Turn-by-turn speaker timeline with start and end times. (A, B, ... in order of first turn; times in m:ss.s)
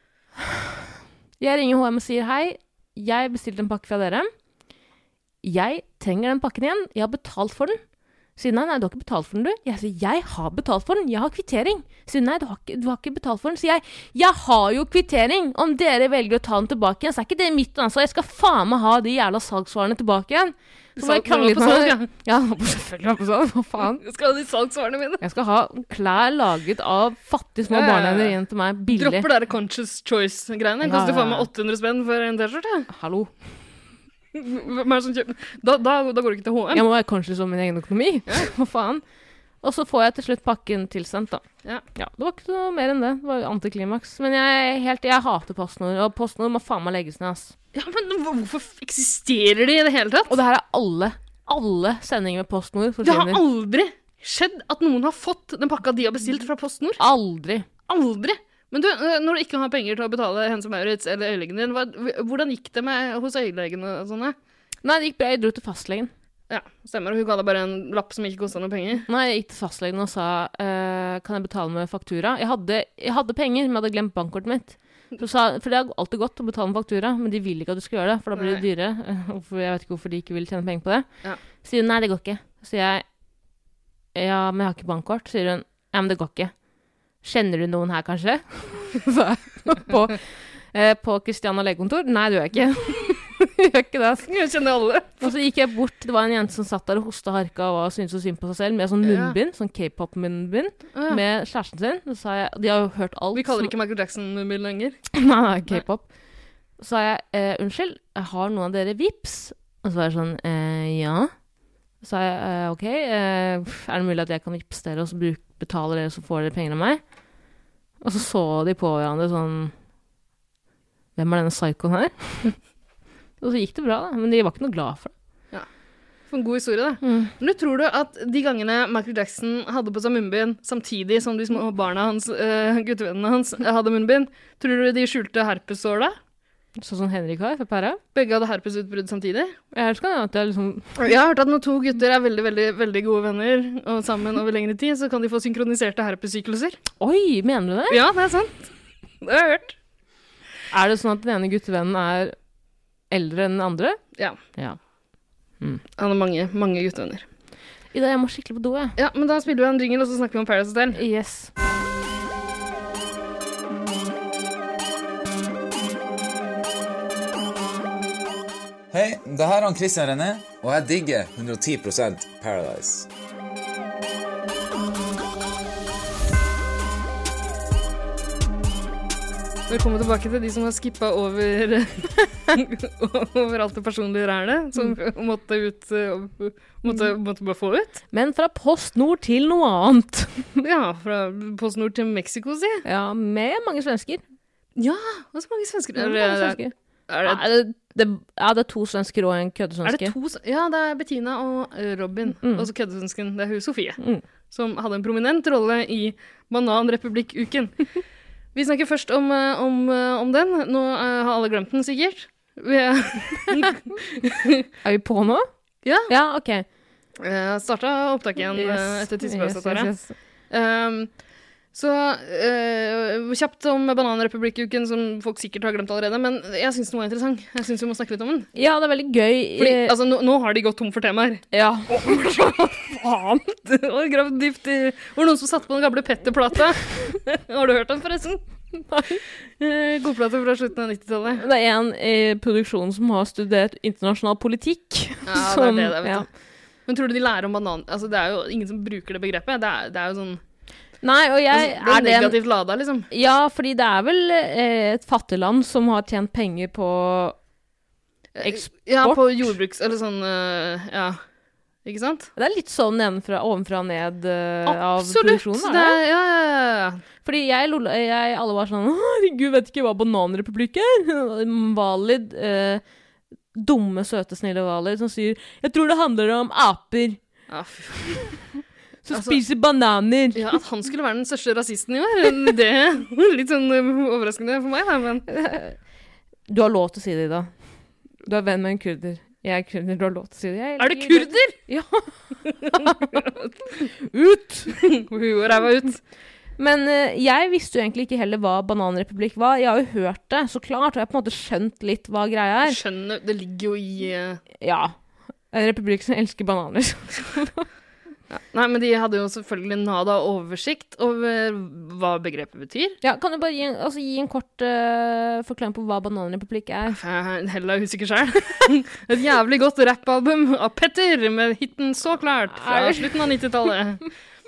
0:01.4-0:04.3 A
0:05.4-0:07.8 A
0:08.4-0:24.0 A
0:21.0-0:22.1 B
0:24.0-0:25.2 B
0:25.2-0:29.3 A
0:27.7-0:28.4 B
0:28.9-0:32.9 B
0:30.8-0:31.5 A
0:32.9-0:33.3 A
0:34.3-0:36.8 B
0:36.7-0:39.0 A
0:39.6-0:41.4 A
0:42.0-0:47.5 A
0:47.7-0:50.3 B
0:50.3-0:53.4 A
0:53.0-0:57.0 B
0:57.0-0:57.7 A
0:57.9-1:04.4 B
1:04.8-1:06.1 A
1:06.5-1:09.1 B
1:09.1-1:21.1 A
1:18.3-1:18.6 B
1:21.6-1:23.0 A
1:24.1-1:26.5 A
1:27.2-1:34.3 A
1:34.3-1:35.3 B
1:35.2-1:43.7 A
1:39.0-1:39.4 B
1:40.9-1:41.2 B
1:43.3-1:45.0 B
1:45.1-1:46.1 A
1:46.8-1:51.3 A
1:52.0-1:57.0 A
1:58.0-1:59.7 A
2:01.2-2:02.6 A
2:03.4-2:05.1 A
2:06.3-2:16.2 B
2:07.0-2:07.3 A
2:16.8-2:18.0 A
2:18.1-2:19.5 B
2:19.7-2:20.9 A
2:21.0-2:26.8 B
2:27.0-2:28.0 A
2:27.9-2:28.7 B
2:29.2-2:29.8 B
2:30.7-2:32.4 A
2:33.1-2:34.0 A
2:36.0-2:37.2 B
2:37.9-2:39.0 A
2:39.0-2:41.0 B
2:40.9-2:41.5 A
2:48.9-2:53.1 C
2:59.7-3:08.0 B
3:08.1-3:10.5 A
3:10.6-3:12.8 B
3:12.8-3:14.2 A
3:14.8-3:17.4 B
3:16.0-3:20.1 A
3:19.8-3:24.0 B
3:22.4-3:22.7 A
3:24.0-3:24.2 A
3:24.5-3:27.7 B
3:28.5-3:34.7 B
3:34.8-3:35.5 A
3:35.8-3:36.1 B
3:36.0-3:36.6 A
3:37.2-3:39.9 B
3:38.5-3:40.1 A
3:40.5-3:41.1 B
3:41.7-3:48.5 B
3:48.5-3:49.9 A
3:49.6-3:58.4 B
3:51.5-3:52.7 A
3:58.8-3:59.2 A
3:59.6-4:01.4 B
4:01.4-4:06.2 A
4:05.2-4:06.3 B
4:06.8-4:10.4 B
4:11.0-4:12.4 A
4:11.5-4:13.1 B
4:13.1-4:17.4 A
4:18.3-4:21.2 B
4:18.4-4:19.5 A
4:21.8-4:22.3 B
4:22.4-4:26.0 A
4:24.6-4:27.0 B
4:27.2-4:32.8 A
4:33.5-4:37.2 A
4:37.5-4:38.4 B
4:39.0-4:40.5 A
4:39.1-4:39.4 B
4:40.3-4:45.2 B
4:45.3-4:45.8 A
4:46.5-4:47.5 A
4:48.2-4:53.2 A
4:50.8-4:51.6 B
4:52.7-4:53.5 B
4:54.0-4:54.8 A
4:54.8-4:56.0 B
4:56.6-5:02.8 A
5:02.6-5:04.4 B
5:04.6-5:05.0 A
5:05.5-5:07.7 A
5:08.3-5:13.0 B
5:13.0-5:17.0 A
5:16.9-5:24.0 B
5:22.5-5:23.4 A